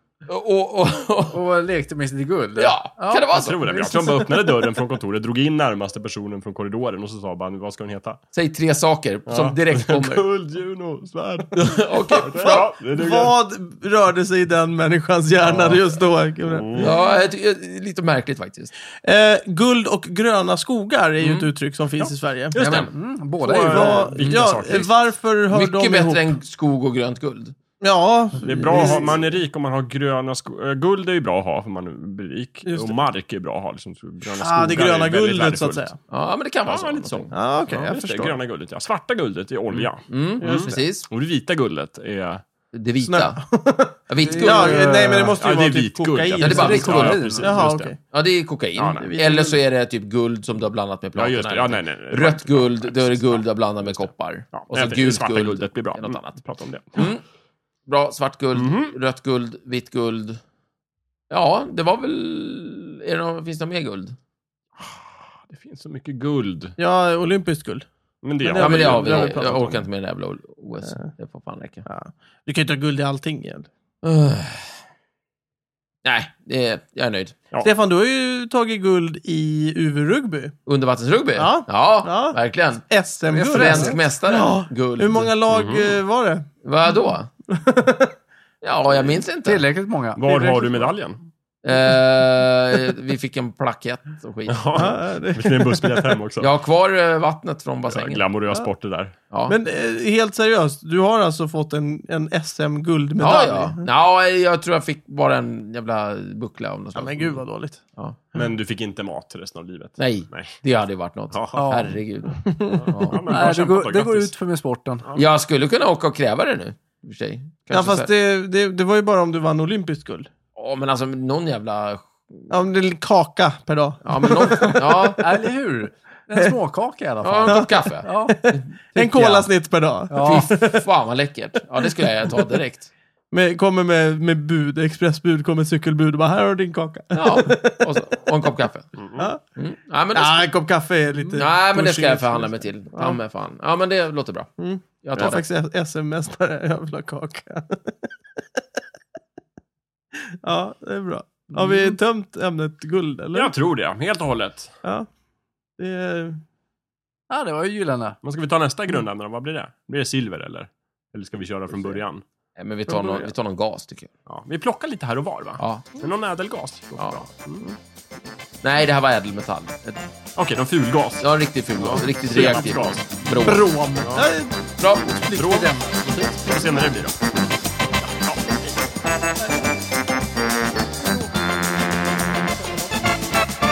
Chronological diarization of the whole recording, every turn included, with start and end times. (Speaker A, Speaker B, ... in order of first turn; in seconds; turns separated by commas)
Speaker A: 0.2-1.4, Speaker B: 1.3-4.3, Speaker A: 2.6-3.6, Speaker C: 3.3-8.2, Speaker A: 8.3-10.2, Speaker C: 9.3-13.3, Speaker A: 11.6-12.7, Speaker D: 11.9-16.7, Speaker C: 15.4-15.8, Speaker C: 16.4-17.0, Speaker A: 16.7-18.7, Speaker D: 19.0-22.6, Speaker A: 21.2-21.5, Speaker C: 22.0-24.9, Speaker A: 22.6-22.9, Speaker B: 22.9-24.3, Speaker D: 23.7-26.2, Speaker A: 25.5-27.6, Speaker D: 27.8-29.2, Speaker C: 28.4-35.9, Speaker D: 32.6-33.0, Speaker D: 34.4-36.0, Speaker A: 36.1-37.3, Speaker C: 36.6-42.4, Speaker D: 37.3-38.3, Speaker A: 40.1-41.1, Speaker D: 40.4-40.8, Speaker A: 42.7-43.4, Speaker D: 43.0-48.0, Speaker A: 44.1-45.2, Speaker B: 44.2-45.3, Speaker C: 45.3-47.9, Speaker A: 46.4-47.4, Speaker B: 46.5-47.6, Speaker A: 48.1-56.4, Speaker C: 48.8-49.1, Speaker D: 49.0-49.6, Speaker C: 51.1-57.1, Speaker A: 56.9-57.2, Speaker A: 57.9-60.4, Speaker C: 58.5-58.9, Speaker A: 61.3-64.2, Speaker C: 64.8-66.8, Speaker D: 66.8-67.8, Speaker C: 68.2-69.8, Speaker D: 68.4-69.7, Speaker A: 68.6-71.8, Speaker D: 71.8-73.7, Speaker A: 74.0-74.7, Speaker A: 76.0-77.4, Speaker D: 77.6-80.5, Speaker A: 80.7-85.3, Speaker D: 81.3-82.4, Speaker D: 82.9-87.0, Speaker B: 83.3-84.0, Speaker C: 85.5-85.9, Speaker A: 86.6-87.3, Speaker D: 87.5-88.2, Speaker A: 88.6-89.6, Speaker B: 89.4-90.9, Speaker C: 90.2-91.2, Speaker A: 91.6-94.9, Speaker C: 94.5-96.5, Speaker D: 94.7-96.2, Speaker A: 96.4-98.3, Speaker C: 97.9-99.1, Speaker A: 99.3-99.5, Speaker D: 99.5-103.8, Speaker A: 103.2-107.4, Speaker D: 106.9-107.8, Speaker C: 108.3-110.6, Speaker A: 110.0-113.3, Speaker C: 111.3-111.7, Speaker B: 111.5-112.0, Speaker D: 112.5-112.8, Speaker C: 112.7-114.3, Speaker B: 113.2-115.0, Speaker A: 115.1-118.1, Speaker D: 117.7-120.3, Speaker A: 120.5-122.5, Speaker D: 122.5-125.1, Speaker A: 124.0-125.2, Speaker B: 125.2-129.5, Speaker A: 127.2-128.6, Speaker D: 127.4-130.8, Speaker B: 130.1-130.5, Speaker A: 130.2-132.9, Speaker D: 132.0-132.5, Speaker D: 133.3-138.2, Speaker A: 137.1-138.9, Speaker C: 139.0-139.3, Speaker A: 139.6-140.4, Speaker D: 140.1-143.2, Speaker A: 141.4-145.4, Speaker D: 144.6-148.1, Speaker D: 150.4-153.5, Speaker B: 151.5-151.9, Speaker C: 153.3-154.7, Speaker D: 155.8-156.4, Speaker B: 157.3-158.2, Speaker C: 158.2-162.2, Speaker A: 162.6-164.1, Speaker C: 162.9-163.3, Speaker C: 164.3-167.6, Speaker A: 165.6-165.9, Speaker A: 167.0-167.2, Speaker A: 168.6-170.1, Speaker C: 170.3-173.1, Speaker A: 171.2-173.7, Speaker B: 173.3-174.2, Speaker C: 174.0-174.3, Speaker D: 174.1-175.6, Speaker A: 174.8-175.5, Speaker C: 175.3-175.7, Speaker B: 175.4-176.9, Speaker C: 176.4-177.4, Speaker C: 178.0-178.8, Speaker B: 181.8-182.9